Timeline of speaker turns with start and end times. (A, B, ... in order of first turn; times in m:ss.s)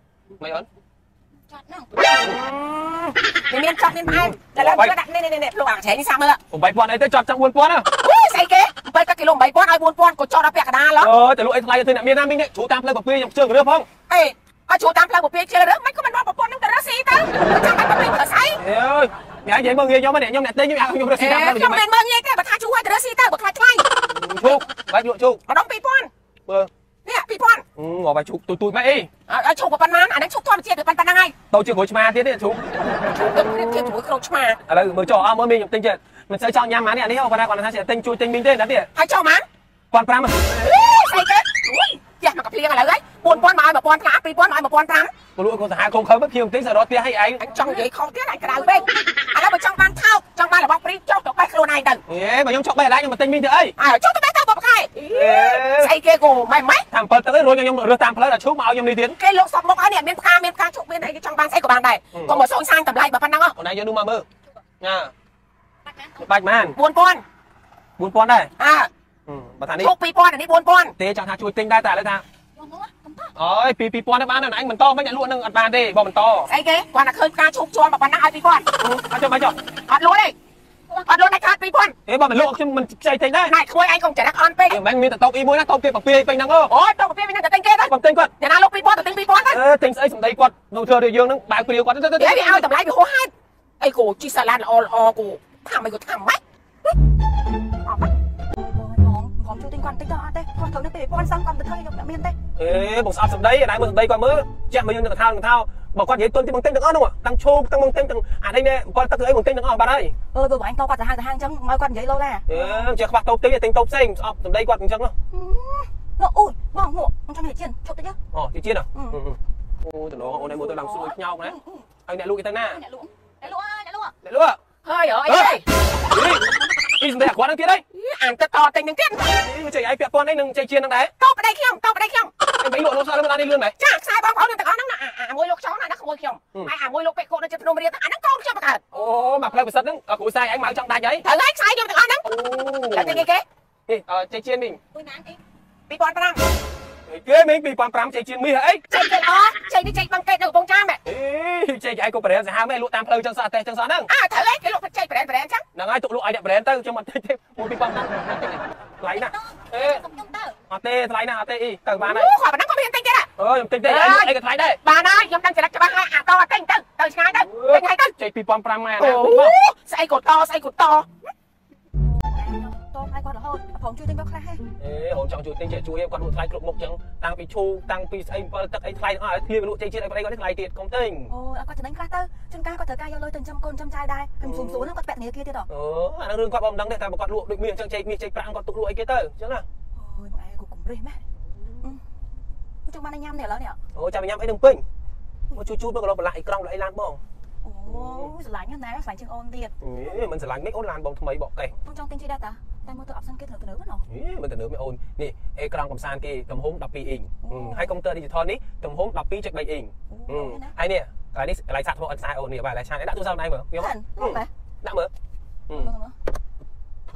0:00.4-0:00.6 A
0:01.5-0:02.4 B
0:02.2-0:03.1 A
0:03.5-0:06.4 C
0:04.1-0:04.9 A
0:06.5-0:07.9 A
0:07.9-0:11.1 C
0:11.0-0:13.9 A
0:14.1-0:18.6 C
0:18.6-0:21.8 A
0:21.2-0:23.9 C
0:24.0-0:25.4 A
0:25.5-0:26.1 C
0:27.0-0:27.6 C
0:27.8-0:29.1 A
0:29.3-0:31.3 C
0:31.5-0:33.2 A
0:33.1-0:34.6 C
0:34.6-0:38.9 A
0:38.9-0:39.4 C
0:39.9-0:40.7 A
0:40.5-0:45.1 C
0:45.4-0:47.7 A
0:47.4-0:52.0 C
0:48.6-0:48.9 B
0:52.1-0:53.7 A
0:53.8-0:56.8 C
0:55.0-0:55.9 A
0:55.1-0:55.5 B
0:56.9-0:59.2 A
0:59.1-1:03.6 C
1:02.1-1:02.4 A
1:03.6-1:04.2 A
1:04.8-1:05.1 A
1:06.2-1:06.8 A
1:06.7-1:07.2 C
1:08.0-1:08.5 A
1:08.6-1:08.9 C
1:09.3-1:09.9 A
1:09.8-1:10.9 C
1:11.0-1:12.2 A
1:12.6-1:13.3 B
1:13.3-1:16.5 A
1:16.4-1:18.7 C
1:18.8-1:19.6 A
1:19.9-1:20.3 C
1:20.9-1:21.4 B
1:21.1-1:21.9 C
1:22.0-1:23.6 A
1:23.5-1:24.8 C
1:24.7-1:26.7 A
1:26.7-1:29.6 C
1:27.8-1:28.3 A
1:29.5-1:32.6 A
1:32.2-1:36.4 C
1:37.8-1:42.4 B
1:42.6-1:50.1 A
1:50.3-1:52.9 B
1:52.5-1:55.1 A
1:55.3-1:58.2 B
1:58.3-2:02.8 A
1:58.9-1:59.2 B
2:00.2-2:01.9 B
2:02.6-2:04.1 B
2:04.2-2:04.6 A
2:04.8-2:05.6 C
2:05.2-2:07.8 A
2:07.9-2:09.4 C
2:09.3-2:11.1 A
2:11.2-2:12.3 C
2:12.6-2:13.7 A
2:13.8-2:18.8 C
2:18.9-2:21.2 A
2:21.2-2:22.2 C
2:22.2-2:23.2 A
2:22.9-2:23.4 C
2:23.9-2:24.8 A
2:24.9-2:25.4 B
2:25.9-2:26.4 C
2:27.1-2:28.8 A
2:28.9-2:31.0 C
2:31.0-2:34.1 A
2:34.1-2:35.6 C
2:35.7-2:40.0 A
2:39.0-2:40.6 B
2:40.7-2:42.3 A
2:42.0-2:43.3 C
2:43.4-2:44.8 A
2:43.8-2:44.3 C
2:44.8-2:48.1 C
2:47.4-2:49.6 A
2:49.0-2:51.1 C
2:52.0-2:54.6 B
2:54.8-3:01.3 A
3:01.3-3:05.7 B
3:04.4-3:04.9 A
3:05.7-3:09.6 A
3:10.0-3:11.2 B
3:12.8-3:13.8 B
3:13.9-3:14.8 A
3:15.5-3:17.2 A
3:17.6-3:19.7 B
3:17.9-3:18.3 A
3:19.8-3:21.7 A
3:21.8-3:24.0 B
3:24.1-3:35.1 A
3:27.4-3:27.9 B
3:30.1-3:30.7 B
3:33.8-3:34.5 B
3:35.7-3:36.2 B